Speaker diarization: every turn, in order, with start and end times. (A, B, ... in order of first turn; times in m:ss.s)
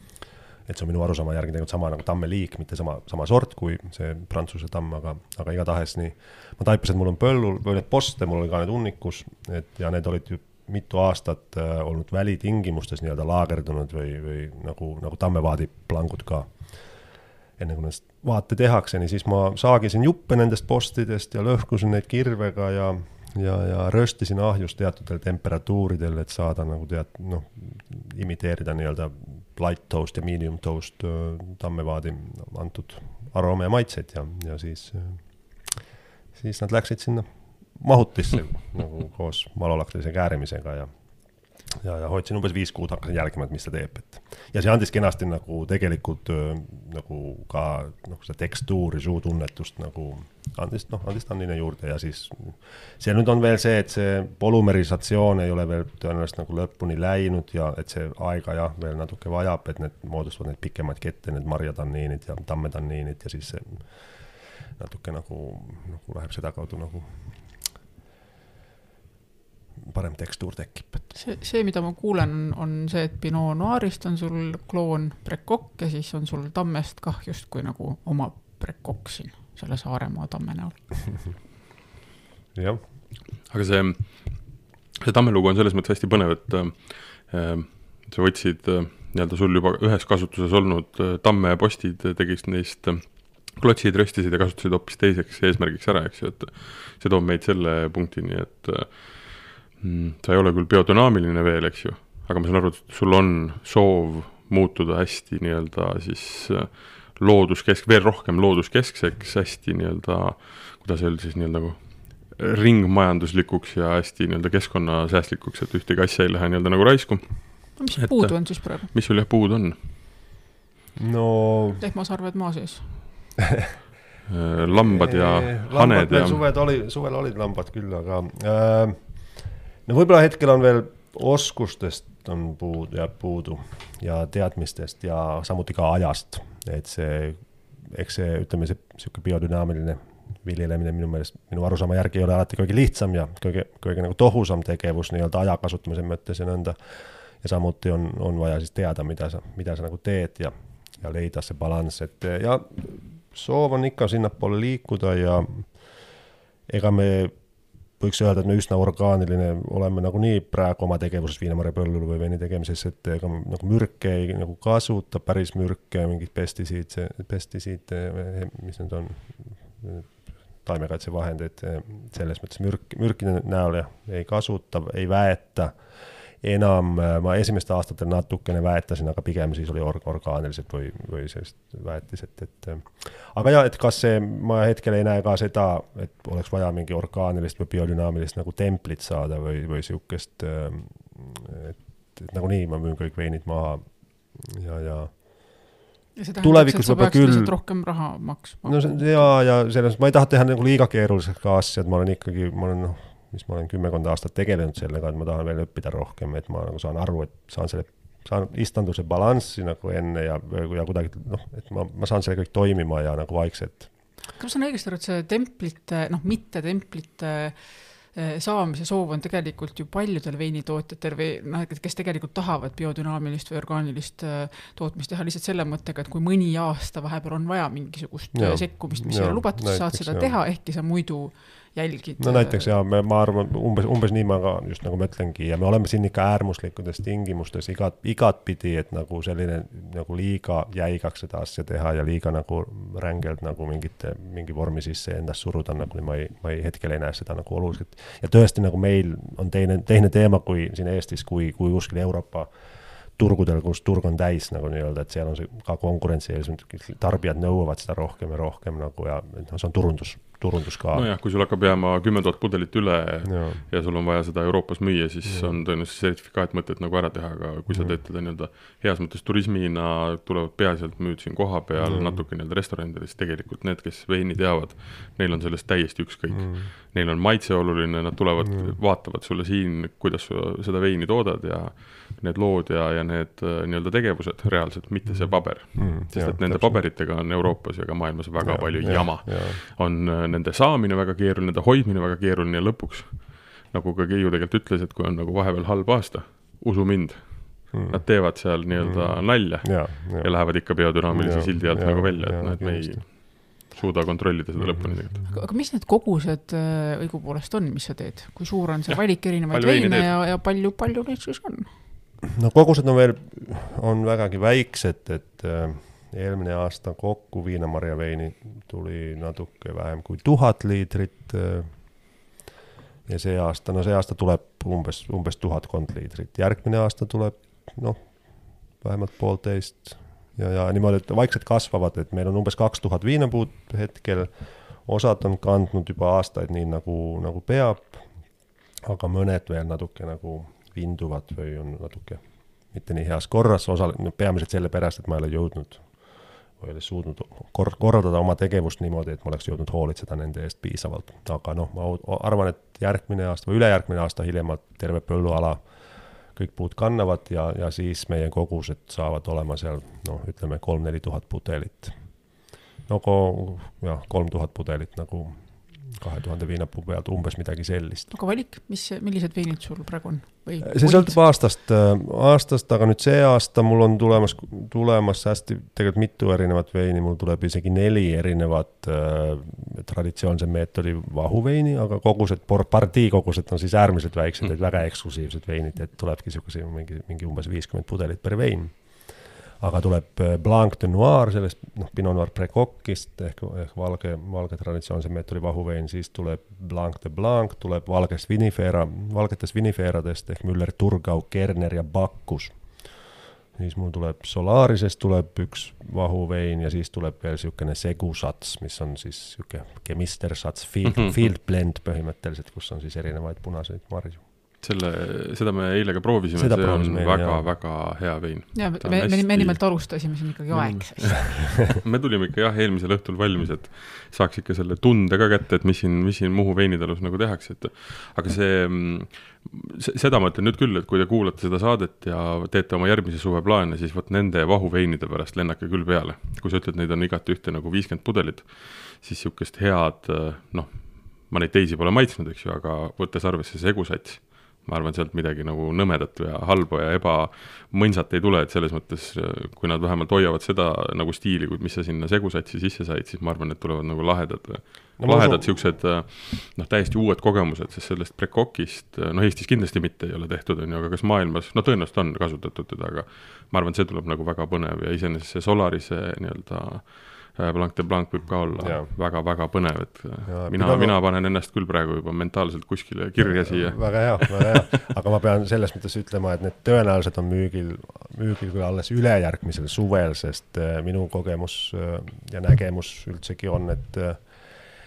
0:00.6-0:16.5 A
0:17.6-0:35.8 A
0:36.4-0:37.2 A
0:37.8-0:40.9 A
0:41.8-1:04.1 A
1:04.8-1:07.1 A
1:09.8-1:11.0 A
1:11.1-1:21.0 B
1:22.5-1:22.8 A
1:23.5-1:59.8 C
1:57.8-1:58.9 B
2:01.0-2:01.8 A
2:01.8-2:03.0 B
2:04.3-2:06.4 C
2:04.8-2:09.0 A
2:09.8-2:26.8 A
2:27.4-2:35.7 A
2:36.7-2:37.3 A
2:38.0-2:55.7 A
2:56.4-3:15.7 A
3:16.2-3:19.3 B
3:16.4-3:17.5 A
3:18.6-3:33.9 A
3:34.4-3:52.7 B
3:48.3-3:50.3 A
3:52.2-4:12.5 A
4:13.2-4:21.1 A
4:20.9-5:05.3 C
4:23.2-4:23.6 A
4:25.2-4:25.5 A
4:27.7-4:28.0 A
4:31.8-4:32.2 A
4:36.3-4:36.7 A
4:38.4-4:38.7 A
4:45.1-4:46.8 A
4:48.4-4:49.6 A
4:57.7-5:03.0 A
5:04.6-5:05.2 A
5:05.3-5:11.7 B
5:08.9-5:10.1 C
5:12.3-5:21.7 A
5:23.1-5:28.0 A
5:28.8-5:34.3 A
5:34.8-5:38.0 A
5:38.8-5:42.2 A
5:42.7-5:45.8 A
5:46.6-5:55.6 A
5:56.3-6:01.9 A
6:02.9-6:08.1 A
6:08.1-6:11.2 B
6:10.6-6:28.7 A
6:29.6-6:42.5 A
6:43.5-6:54.2 A
6:54.6-7:54.6 C
6:56.4-6:57.4 A
6:58.5-7:01.2 B
7:35.0-7:35.5 A
7:48.6-7:48.9 A
7:50.3-7:51.0 A
7:53.2-8:04.2 A